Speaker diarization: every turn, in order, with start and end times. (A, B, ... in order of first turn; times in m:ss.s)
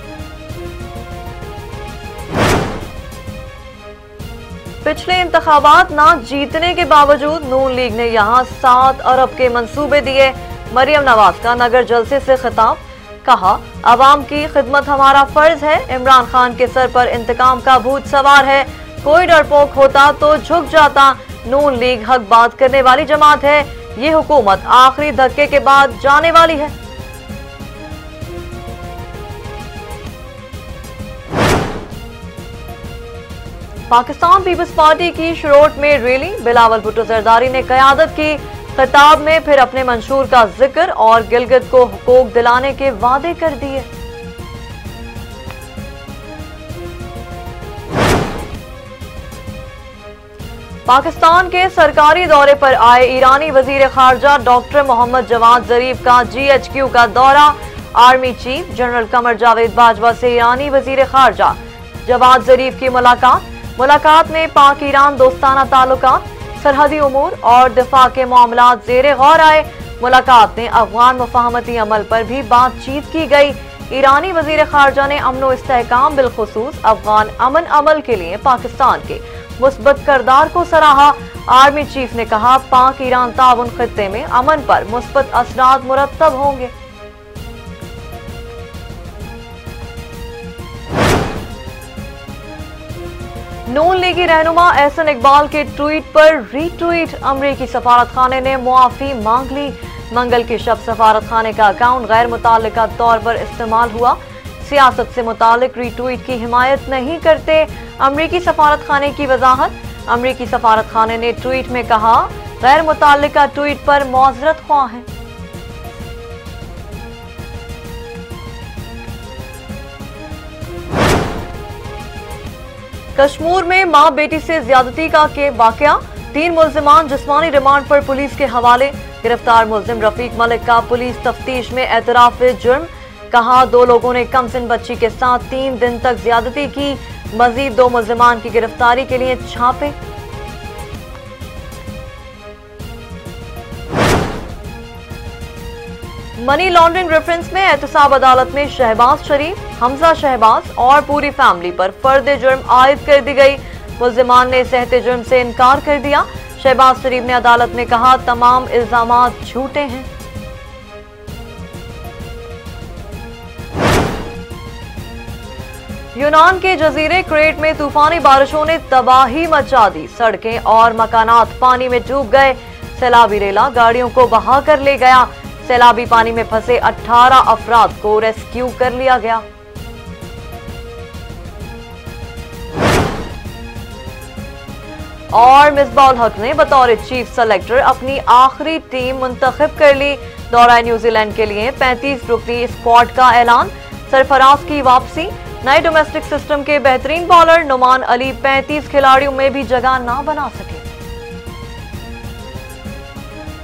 0:04.8-0:26.7 A
0:33.9-0:43.9 A
0:50.8-1:26.7 A
1:33.7-1:55.1 A
2:03.2-2:20.0 A
2:26.4-2:40.1 A
2:46.1-2:59.4 A
3:05.3-3:20.8 A